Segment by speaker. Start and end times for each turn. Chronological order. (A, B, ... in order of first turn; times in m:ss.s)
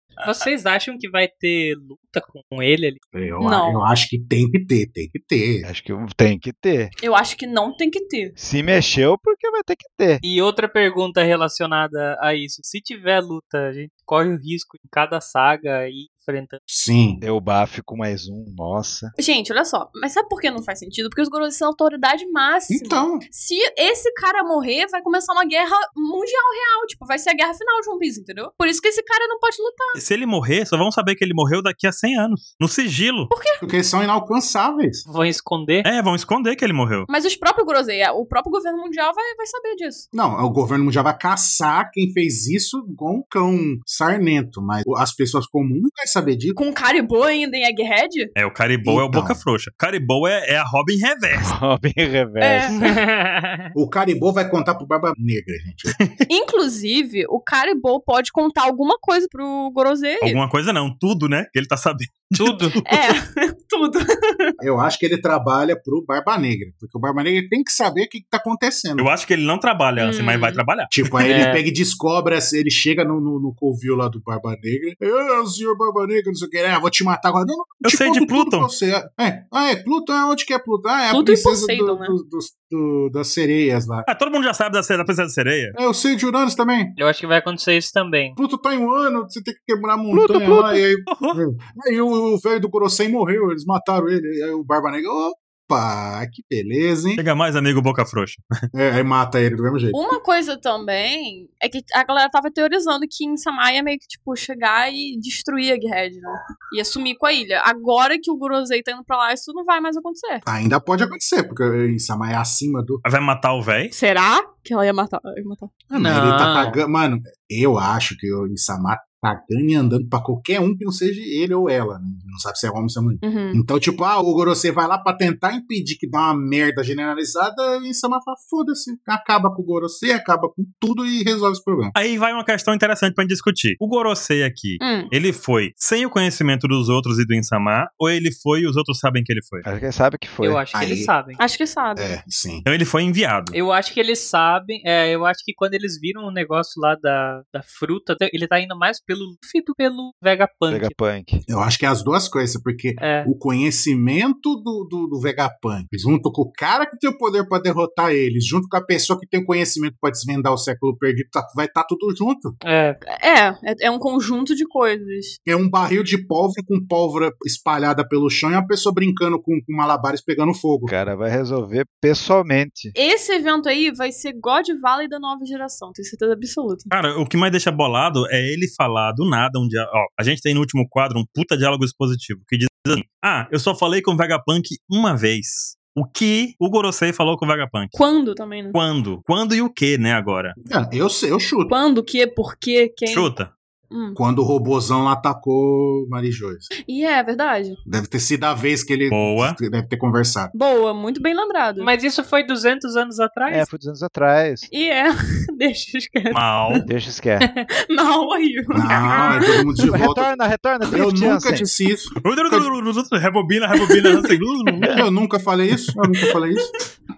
0:00.2-0:03.0 A
0:03.1-0:05.7 B
0:03.4-0:03.8 C
0:05.6-0:06.9 D
0:07.0-0:08.3 C
0:08.4-0:10.2 D
0:10.2-0:16.6 A
0:16.7-0:17.2 B
0:17.2-0:19.1 D
0:19.2-0:30.0 C
0:22.7-0:23.2 B
0:29.9-0:33.3 E
0:33.3-0:33.6 C
0:33.6-0:35.0 B
0:35.1-0:35.9 A
0:35.8-0:37.1 E
0:37.1-0:40.0 C
0:40.1-0:46.6 B
0:46.6-0:48.3 C
0:48.3-0:51.5 E
0:48.8-0:49.4 B
0:51.3-0:52.9 D
0:52.4-0:52.8 C
0:52.7-0:53.7 A
0:53.7-0:56.0 B
0:56.0-0:56.2 E
0:56.3-1:00.4 C
1:00.2-1:03.1 E
1:02.4-1:02.8 A
1:02.8-1:04.6 C
1:04.6-1:09.1 B
1:09.0-1:11.1 E
1:10.0-1:10.6 C
1:10.9-1:24.0 B
1:11.2-1:11.6 A
1:17.8-1:18.7 E
1:21.1-1:22.1 C
1:24.0-1:25.7 E
1:25.7-1:27.0 B
1:27.0-1:28.4 A
1:28.4-1:37.2 B
1:30.1-1:30.8 D
1:31.1-1:31.4 E
1:37.2-1:38.4 E
1:38.7-1:40.0 B
1:39.9-1:50.4 C
1:50.4-1:53.0 B
1:53.0-1:53.9 E
1:53.9-1:55.7 C
1:55.9-2:11.9 B
1:56.0-1:56.8 A
2:03.2-2:03.6 C
2:11.9-2:19.6 E
2:14.8-2:15.1 C
2:19.6-2:20.6 D
2:20.4-2:21.4 A
2:20.7-2:21.1 B
2:21.4-2:22.2 C
2:22.0-2:22.6 B
2:22.6-2:23.6 E
2:23.5-2:30.9 A
2:30.7-2:31.4 D
2:31.5-2:42.6 B
2:33.0-2:33.3 A
2:42.6-2:43.0 A
2:43.0-2:45.4 C
2:45.4-2:50.9 B
2:50.9-2:52.9 D
2:52.9-2:56.9 C
2:56.9-3:08.0 E
3:07.9-3:08.8 C
3:08.7-3:10.6 E
3:10.6-3:11.7 B
3:11.7-3:13.3 C
3:13.0-3:13.5 E
3:13.9-3:14.2 C
3:14.1-3:16.7 B
3:16.9-3:17.8 C
3:17.8-3:20.5 B
3:19.1-3:19.6 E
3:20.5-3:21.9 C
3:21.8-3:23.6 A
3:23.5-3:24.7 D
3:24.7-3:26.8 C
3:26.3-3:26.8 E
3:26.9-3:27.5 D
3:27.9-3:29.5 C
3:28.7-3:30.3 B
3:29.8-3:31.7 D
3:30.9-3:32.7 B
3:32.2-3:35.0 E
3:34.9-3:36.7 B